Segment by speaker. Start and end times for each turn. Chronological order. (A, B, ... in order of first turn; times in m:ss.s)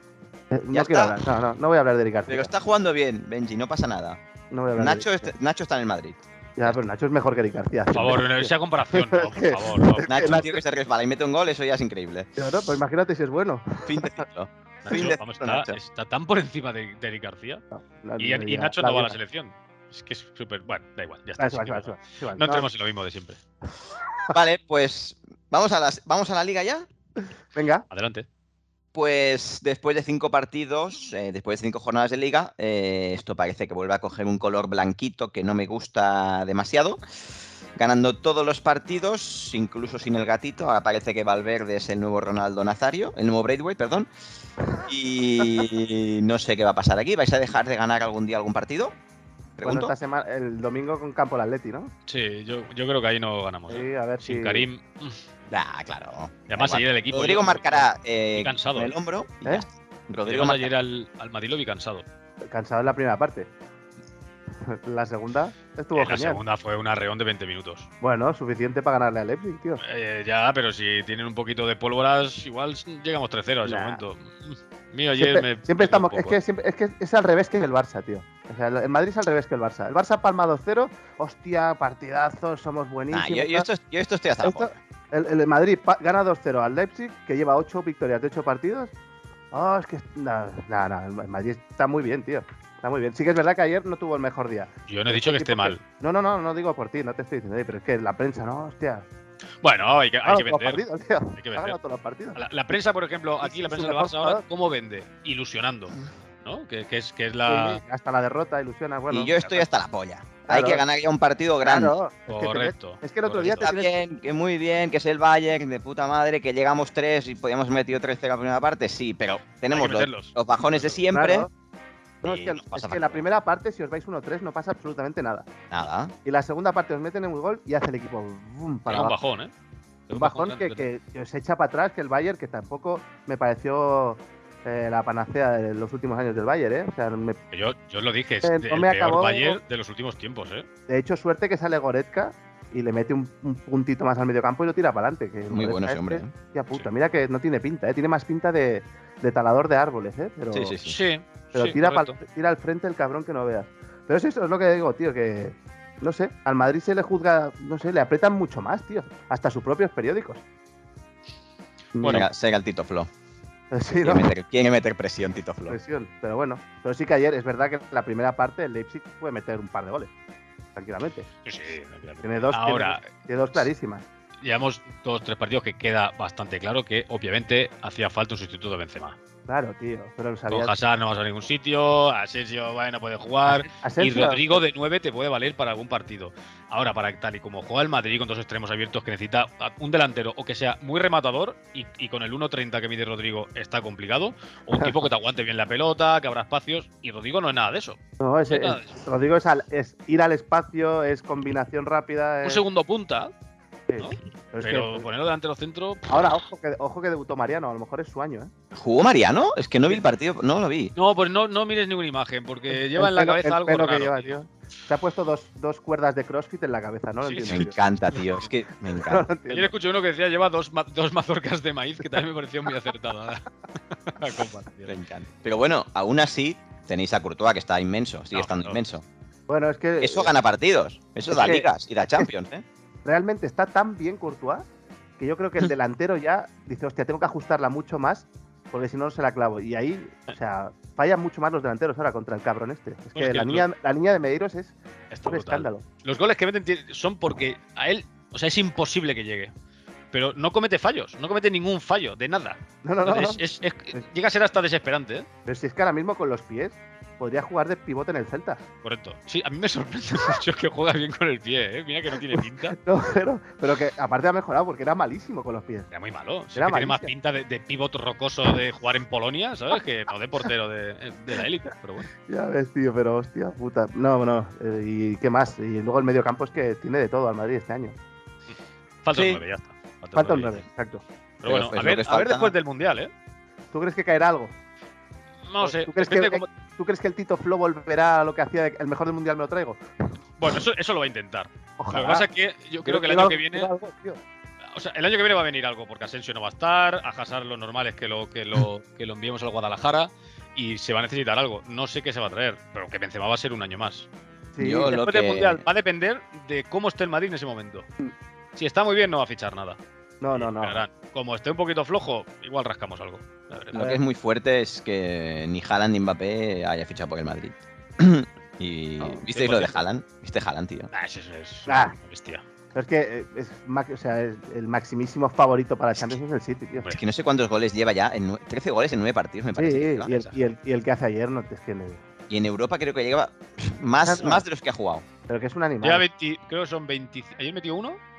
0:00.5-0:02.5 A
0:00.7-0:01.2 B
0:02.3-0:04.2 B
0:04.5-0:05.3 A
0:04.8-0:06.2 B
0:06.6-0:10.6 A
0:07.9-0:10.5 C
0:10.0-0:12.3 B
0:12.4-0:14.2 A
0:13.8-0:15.8 B
0:14.8-0:17.6 C
0:17.7-0:19.2 A
0:18.2-0:23.4 C
0:21.4-0:22.7 A
0:24.3-0:26.9 B
0:27.5-0:27.9 A
0:27.9-0:28.3 C
0:28.9-0:37.0 B
0:37.8-0:44.1 B
0:44.8-0:49.0 B
0:49.6-0:49.9 B
0:49.6-0:51.9 A
0:52.1-0:55.2 C
0:53.7-0:54.7 A
0:55.5-1:00.7 B
0:56.5-0:58.9 C
1:00.3-1:02.0 C
1:02.5-1:03.5 A
1:04.6-1:06.4 A
1:06.0-1:07.9 C
1:08.0-1:09.8 A
1:09.8-1:16.4 C
1:13.6-1:14.0 A
1:15.2-1:23.7 A
1:23.1-1:24.7 B
1:24.4-1:28.9 A
1:29.5-1:39.1 A
1:34.9-1:35.8 C
1:39.6-1:40.8 C
1:40.2-1:42.4 A
1:41.4-1:41.8 C
1:42.4-1:47.8 C
1:43.4-1:44.4 A
1:47.5-1:49.3 A
1:49.1-1:52.0 B
1:49.4-1:49.6 C
1:50.5-1:50.8 A
1:51.6-1:53.9 A
1:52.3-1:53.7 C
1:53.5-2:01.5 B
1:59.7-2:01.0 C
2:01.1-2:01.5 A
2:02.2-2:03.2 B
2:02.2-2:05.5 A
2:05.7-2:06.1 B
2:06.2-2:09.2 A
2:08.9-2:09.5 C
2:10.1-2:10.9 C
2:10.1-2:17.4 A
2:17.5-2:20.7 C
2:18.4-2:19.6 A
2:20.9-2:30.8 A
2:25.5-2:26.3 B
2:30.5-2:31.0 B
2:30.8-2:32.2 C
2:31.5-2:40.4 A
2:42.0-2:42.3 A
2:42.0-2:43.1 B
2:43.7-2:44.3 A
2:44.0-2:45.8 B
2:45.7-2:50.1 A
2:50.8-2:51.3 A
2:51.4-2:53.7 C
2:52.2-2:54.0 A
2:54.4-2:59.2 C
2:59.5-3:00.7 A
3:00.5-3:19.0 C
3:03.5-3:04.6 A
3:18.2-3:22.6 A
3:22.4-3:23.3 C
3:23.9-3:25.1 A
3:24.0-3:26.4 C
3:26.1-3:28.5 A
3:28.7-3:30.9 B
3:31.0-3:34.4 C
3:32.7-3:37.8 A
3:37.2-3:38.5 C
3:37.5-3:39.3 B
3:38.8-3:39.7 A
3:39.5-3:44.9 C
3:44.9-3:49.0 B
3:48.3-3:48.8 C
3:49.5-3:50.4 A
3:50.0-3:52.6 B
3:51.3-3:52.3 A
3:53.0-3:54.6 A
3:55.2-4:05.8 A
4:03.1-4:03.7 C
4:05.1-4:09.5 C
4:10.1-4:15.3 C
4:12.8-4:13.4 A
4:15.5-4:18.6 A
4:18.8-4:22.8 C
4:22.2-4:25.9 A
4:25.9-4:32.1 C
4:26.6-4:27.1 A
4:32.2-4:38.0 A
4:39.0-4:40.6 C
4:39.1-4:39.4 B
4:40.2-4:41.0 A
4:41.4-4:43.1 C
4:41.4-4:42.5 B
4:43.7-4:44.5 A
4:45.5-4:46.5 C
4:45.6-4:49.8 A
4:50.4-4:53.7 C
4:51.8-4:52.3 A
4:52.8-4:54.2 A
4:54.7-5:04.1 C
5:04.6-5:05.0 A
5:04.6-5:05.6 B
5:04.8-5:07.9 C
5:08.6-5:09.8 C
5:10.2-5:10.8 A
5:10.4-5:13.8 C
5:13.7-5:14.0 A
5:13.7-5:20.9 B
5:19.1-5:19.8 C
5:20.9-5:22.4 C
5:21.7-5:22.0 A
5:22.8-5:27.0 A
5:26.9-5:30.3 B
5:29.6-5:32.0 A
5:32.3-5:35.1 B
5:34.0-5:34.4 A
5:35.3-5:36.0 A
5:35.8-5:38.0 C